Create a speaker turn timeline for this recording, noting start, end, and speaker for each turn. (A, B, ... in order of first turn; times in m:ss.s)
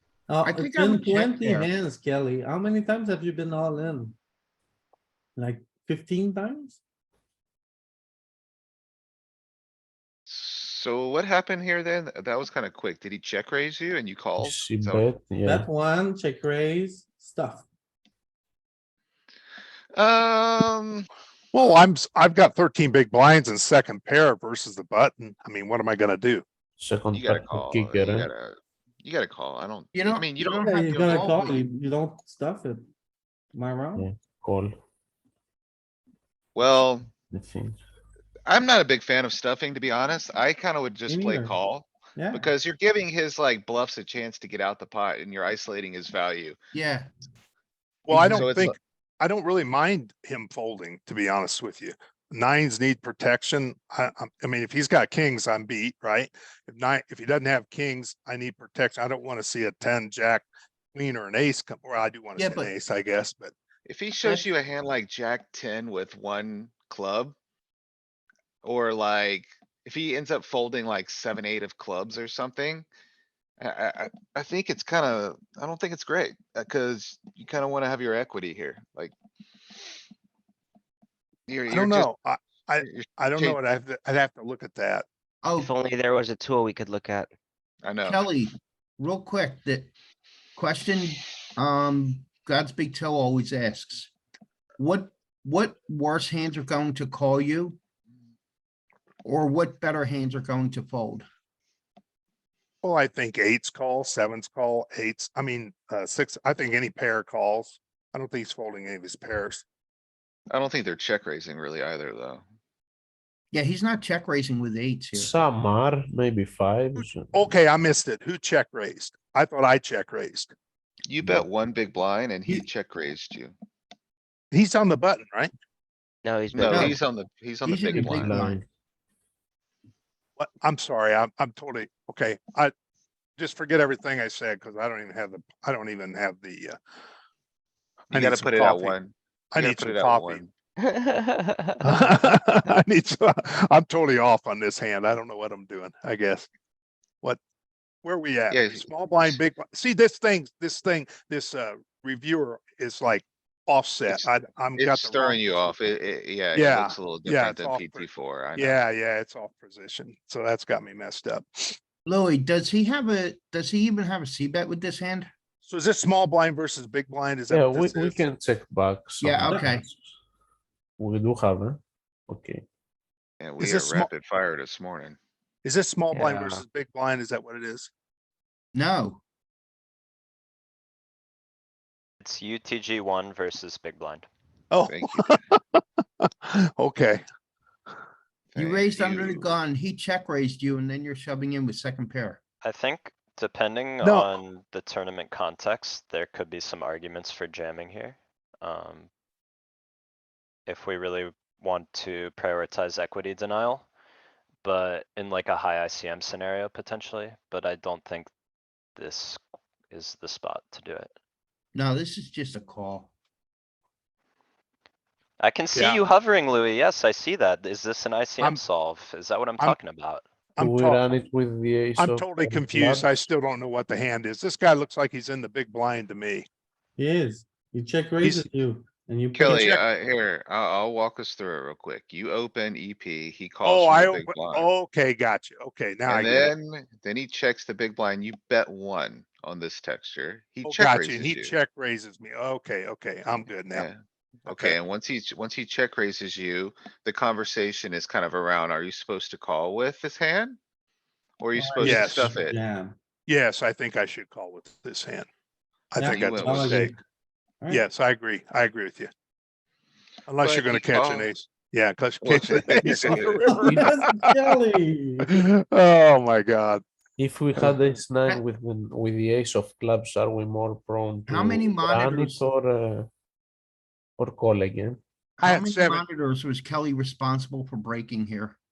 0:00.3-0:04.2 A
0:00.4-0:01.7 B
0:05.4-0:06.8 A
0:10.3-0:15.0 C
0:14.4-0:15.6 D
0:15.4-0:17.7 A
0:20.0-0:21.1 C
0:21.5-0:26.4 E
0:26.8-0:28.2 D
0:27.1-0:31.2 C
0:29.9-0:31.7 B
0:30.6-0:32.8 A
0:33.5-0:34.1 A
0:34.0-0:34.7 D
0:36.5-0:37.2 C
0:37.3-0:37.8 D
0:38.5-0:46.6 C
0:41.1-0:41.6 A
0:42.2-0:42.5 A
0:46.7-0:47.1 B
0:48.1-1:03.5 E
0:48.1-0:48.8 C
1:02.4-1:02.7 B
1:03.8-1:07.4 C
1:08.6-1:12.9 C
1:13.6-1:19.1 C
1:21.5-1:22.1 C
1:21.7-1:25.0 E
1:22.8-1:23.6 C
1:25.4-1:25.7 B
1:25.6-1:27.3 F
1:27.8-1:28.3 C
1:28.0-1:29.9 B
1:30.6-1:34.1 B
1:34.8-1:37.8 B
1:39.2-1:41.3 B
1:42.8-1:49.6 E
1:50.5-1:52.4 C
1:53.5-1:55.3 B
1:55.2-1:57.3 D
1:56.9-2:00.5 E
2:01.0-2:03.5 C
2:04.5-2:05.5 E
2:06.2-2:07.0 F
2:06.5-2:08.4 C
2:06.6-2:07.0 B
2:07.6-2:08.6 B
2:08.2-2:08.6 D
2:10.4-2:12.7 E
2:13.4-2:16.8 E
2:18.1-2:19.0 E
2:18.1-2:20.5 C
2:19.5-2:20.4 E
2:20.8-2:21.7 F
2:21.8-2:26.5 E
2:28.0-2:35.8 E
2:28.5-2:29.4 C
2:34.1-2:38.8 C
2:36.5-2:41.8 E
2:42.0-2:45.3 B
2:45.6-2:48.2 E
2:47.5-2:50.1 D
2:49.2-2:49.8 B
2:51.0-2:52.6 D
2:53.4-2:55.2 C
2:53.6-2:54.1 E
2:55.6-2:57.9 E
2:56.1-2:56.6 F
2:58.7-2:59.2 B
3:02.2-3:04.3 G
3:04.7-3:07.2 E
3:04.8-3:05.4 C
3:08.5-3:09.5 C
3:08.6-3:12.4 B
3:12.6-3:19.1 G
3:14.0-3:14.4 E
3:20.7-3:23.9 G
3:24.6-3:28.3 G
3:29.0-3:31.1 G
3:31.7-3:33.1 B
3:35.4-3:40.2 G
3:35.7-3:36.0 E
3:40.6-3:41.0 E
3:40.6-3:43.1 D
3:42.0-3:46.4 E
3:47.0-3:49.7 A
3:48.2-3:48.4 E
3:49.3-3:54.7 C
3:49.5-3:49.8 E
3:53.6-3:56.5 E
3:56.1-4:01.6 C
4:00.6-4:03.8 E
4:03.7-4:10.6 C
4:04.5-4:04.8 E
4:11.4-4:12.6 C
4:11.5-4:12.9 A
4:11.8-4:12.3 E
4:13.3-4:15.3 E
4:15.9-4:16.9 E
4:16.0-4:17.0 A
4:16.0-4:16.9 C
4:17.7-4:19.1 E
4:20.3-4:24.1 E
4:20.4-4:21.3 C
4:22.2-4:23.6 C
4:23.5-4:25.3 A
4:25.2-4:26.8 E
4:27.2-4:33.1 D
4:31.3-4:32.4 B
4:34.2-4:35.0 D
4:35.4-4:38.6 B
4:35.4-4:36.0 E